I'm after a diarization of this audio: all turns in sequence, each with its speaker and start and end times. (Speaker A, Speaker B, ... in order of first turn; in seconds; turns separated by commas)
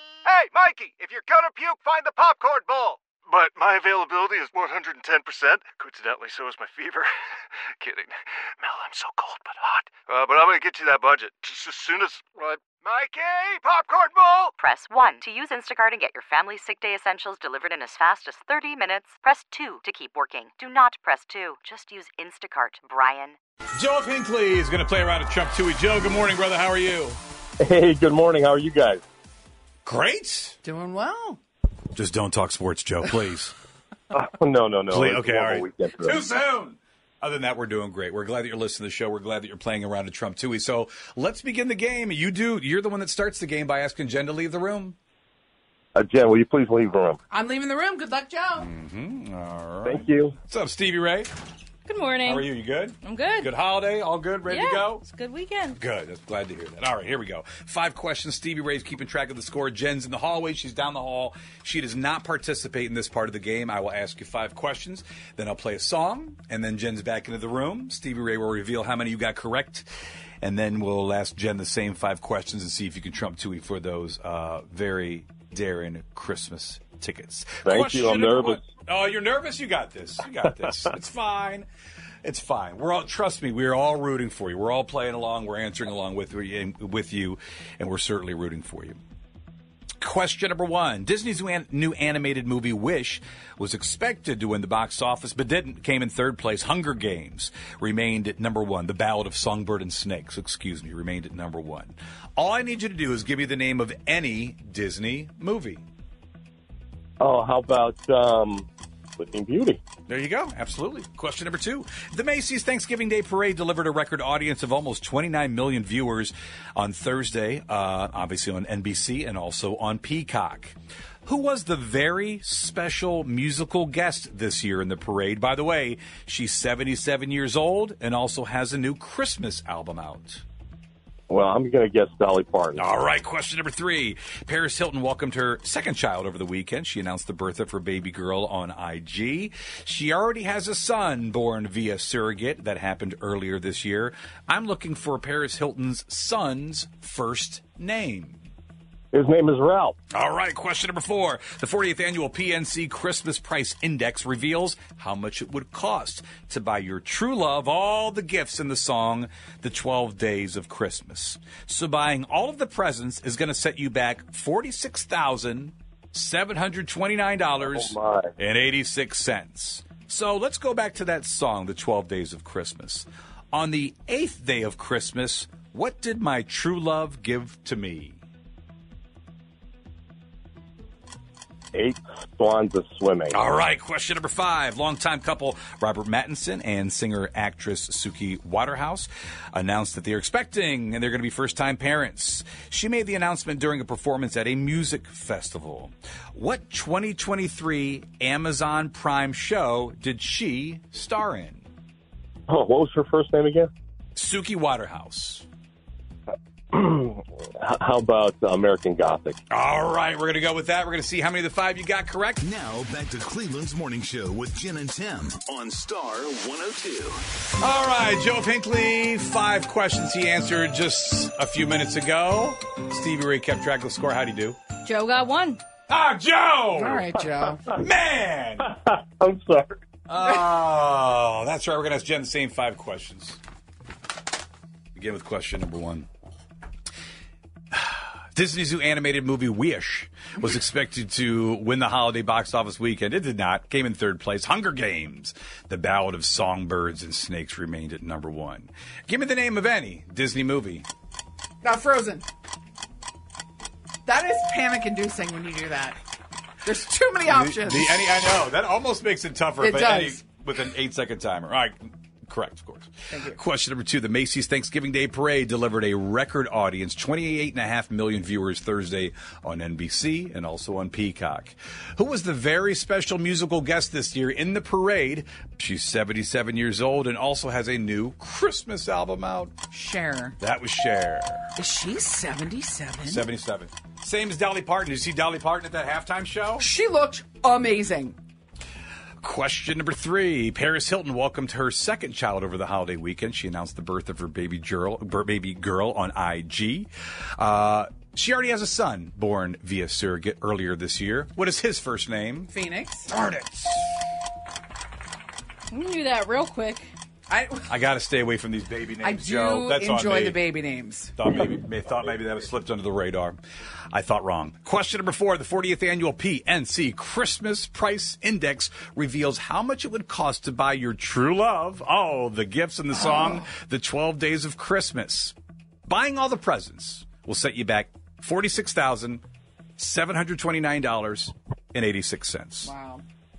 Speaker A: 0.2-14.5, Speaker B: 14.6-23.4, Speaker C: 23.8-27.2, Speaker D: 27.6-29.0, Speaker C: 29.9-30.6, Speaker E: 30.6-31.4, Speaker C: 31.9-33.5, Speaker D: 34.1-36.2, Speaker C: 34.9-45.0, Speaker D: 46.0-47.2, Speaker E: 47.3-48.7, Speaker C: 48.6-51.3, Speaker D: 49.9-50.4, Speaker F: 51.9-52.5, Speaker C: 52.2-55.1, Speaker F: 53.0-53.5, Speaker F: 54.5-55.8, Speaker C: 55.8-69.9, Speaker C: 70.4-81.7, Speaker D: 77.6-78.6, Speaker C: 82.2-89.0, Speaker C: 90.0-105.8, Speaker D: 107.2-108.7, Speaker D: 109.2-109.8, Speaker C: 110.1-130.4, Speaker D: 131.3-132.9, Speaker C: 132.8-148.4, Speaker D: 149.1-149.9, Speaker C: 150.1-178.2, Speaker D: 167.6-168.3, Speaker D: 181.7-183.4, Speaker C: 183.3-201.7, Speaker D: 202.5-203.7, Speaker C: 204.2-205.4, Speaker D: 206.7-209.4, Speaker C: 209.5-212.4, Speaker G: 212.4-217.2, Speaker C: 217.6-224.6, Speaker F: 224.8-225.6, Speaker C: 225.9-227.1, Speaker E: 226.8-227.6, Speaker C: 227.7-228.7, Speaker D: 228.8-229.8, Speaker C: 230.1-233.4, Speaker C: 234.9-236.1, Speaker C: 237.7-250.9, Speaker E: 251.6-252.2, Speaker E: 254.1-256.0, Speaker E: 256.6-258.0, Speaker C: 257.3-279.6, Speaker E: 259.6-260.2, Speaker E: 263.1-263.4, Speaker E: 279.7-280.4, Speaker C: 280.4-281.5, Speaker E: 281.6-283.3, Speaker C: 283.0-286.7, Speaker E: 286.6-288.2, Speaker C: 289.2-302.5, Speaker E: 302.5-303.1, Speaker C: 303.1-303.9, Speaker F: 305.7-306.9, Speaker E: 307.3-307.7, Speaker C: 307.7-310.4, Speaker E: 309.0-311.1, Speaker C: 311.2-313.4, Speaker C: 313.9-325.4, Speaker C: 325.9-329.2, Speaker C: 329.8-332.7, Speaker E: 332.6-333.0